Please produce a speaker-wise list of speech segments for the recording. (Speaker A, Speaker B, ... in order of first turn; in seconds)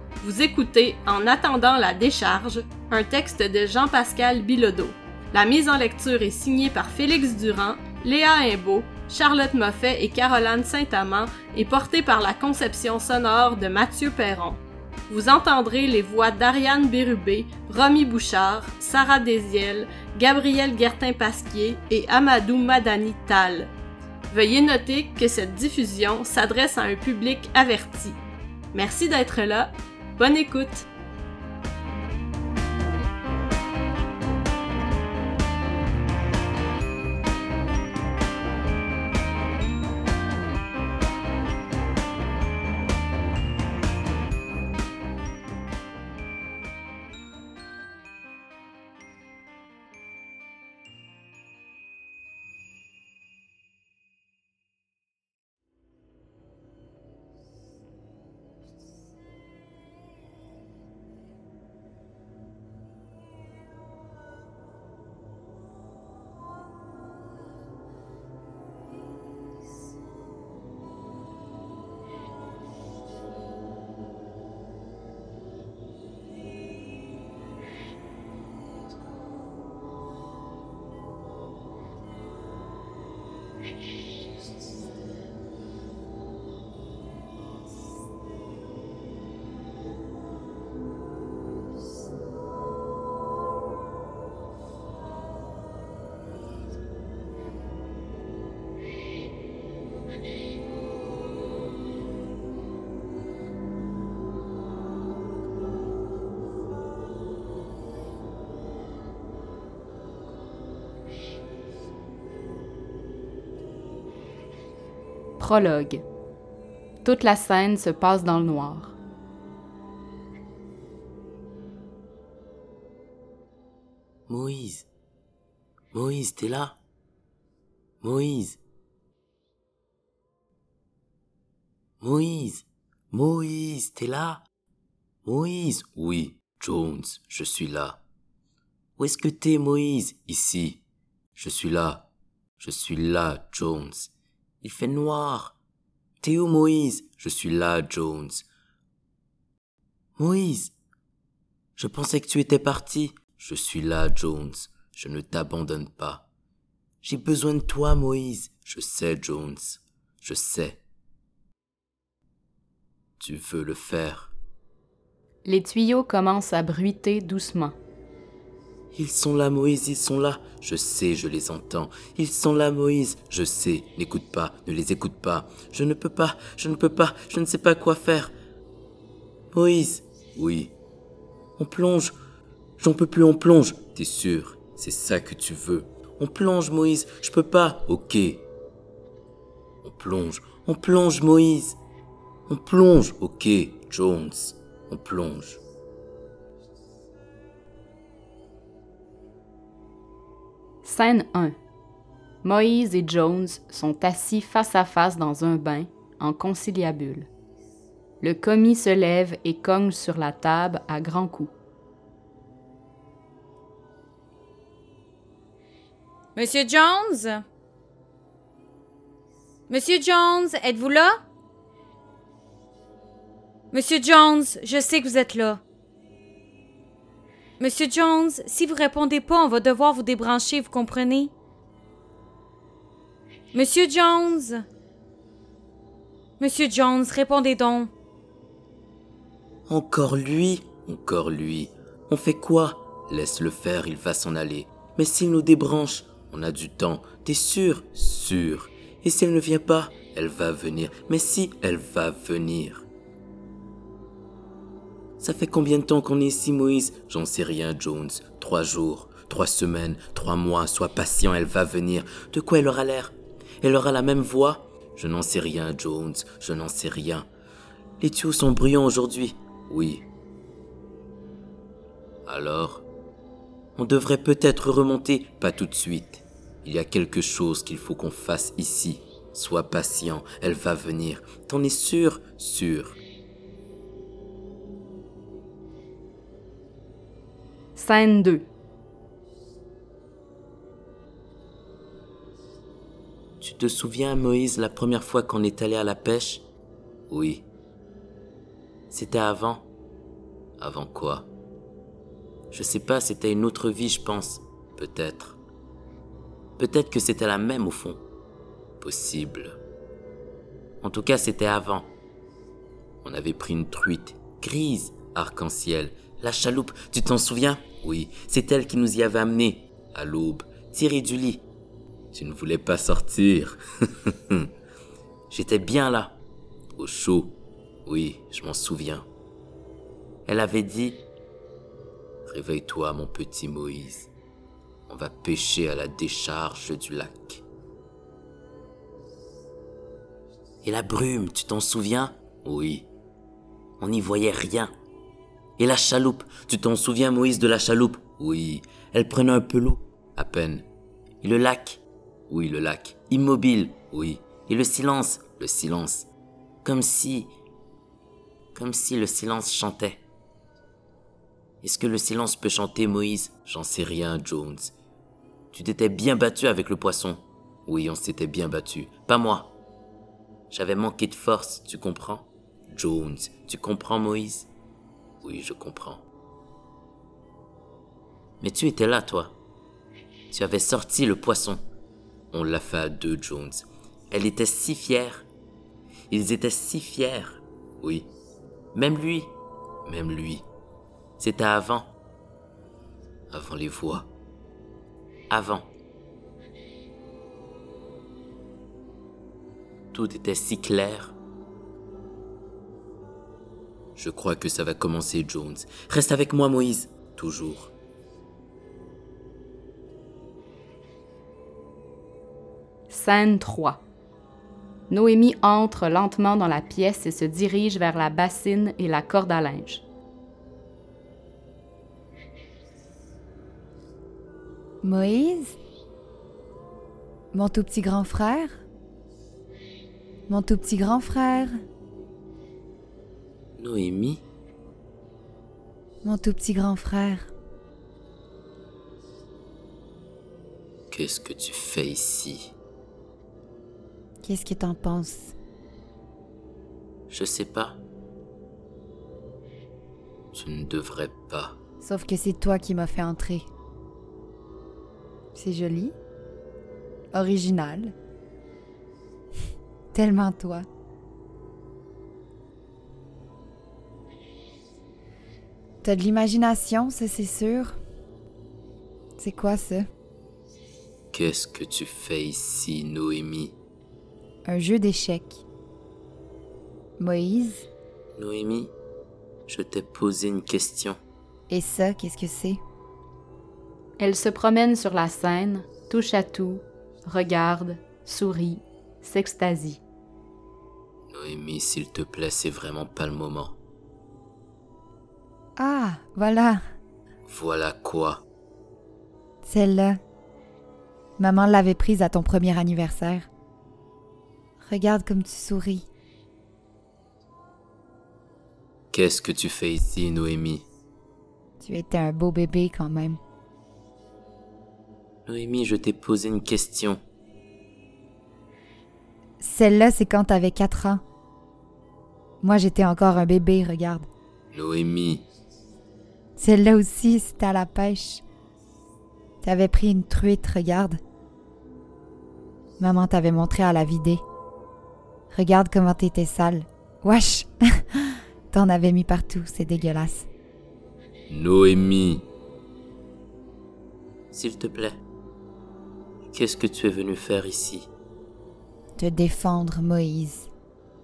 Speaker A: 0.2-23.7, 24.3-28.2, 28.7-30.9
Speaker B: 115.4-116.0, 117.0-119.0, 165.4-167.8, 200.8-201.6, 202.4-207.3, 208.2-211.5, 287.8-288.5, 412.9-413.8, 414.9-419.9, 484.0-489.8
Speaker C: 124.3-124.9, 125.9-126.8, 128.0-128.6, 132.0-134.4, 135.2-138.0, 139.0-140.8, 141.4-142.1, 142.6-144.1, 144.6-145.6, 146.2-148.4, 150.2-150.7, 151.8-156.3, 157.0-160.8, 163.2-164.3, 168.9-178.3, 179.5-180.8, 181.6-182.2, 182.8-188.5, 189.8-191.8, 192.5-195.6, 239.7-252.8, 255.2-267.3, 268.0-270.1, 272.3-272.8, 273.8-283.0, 293.4-296.5, 297.1-297.5, 298.9-299.7, 300.6-301.3, 302.5-305.4, 306.6-308.0, 308.8-309.6, 310.8-311.9, 313.0-321.4, 322.1-324.5, 325.3-326.2, 326.8-329.1, 330.3-331.1, 332.3-334.1, 334.9-337.4, 340.6-342.9, 343.8-344.7, 345.6-350.7, 351.2-356.1, 356.6-357.3, 358.6-360.0, 361.6-364.7, 365.5-369.6, 370.5-374.5, 375.2-376.0, 378.4-379.4, 380.3-381.6, 382.3-385.3, 386.1-388.1, 388.7-390.5, 391.2-391.9, 393.3-394.1, 395.3-395.7, 399.9-401.2, 404.0-407.7, 433.6-434.2, 440.9-442.5, 447.1-447.8, 450.3-451.6, 471.1-473.6, 478.2-478.7, 479.5-481.0, 491.1-493.6, 497.3-498.2, 508.9-510.7, 515.3-517.0, 524.5-525.3, 541.3-542.3, 544.3-545.0, 546.3-547.9
Speaker D: 216.3-217.4, 219.7-221.2, 223.7-225.6, 227.6-231.3, 233.5-234.6, 236.4-237.9
Speaker E: 424.8-425.6, 427.3-428.6, 430.3-431.6, 436.0-437.3, 444.2-445.3, 451.8-453.5, 455.3-456.0, 457.1-457.9, 459.9-460.7, 465.8-467.8, 469.2-469.9, 474.4-475.4, 477.0-477.7, 481.5-482.6, 495.6-496.6, 499.4-500.0, 501.2-503.3, 504.6-505.9, 511.6-513.2, 519.4-521.0, 522.4-524.1, 526.4-528.2, 529.4-531.0, 532.8-534.2, 535.3-540.3, 549.0-550.5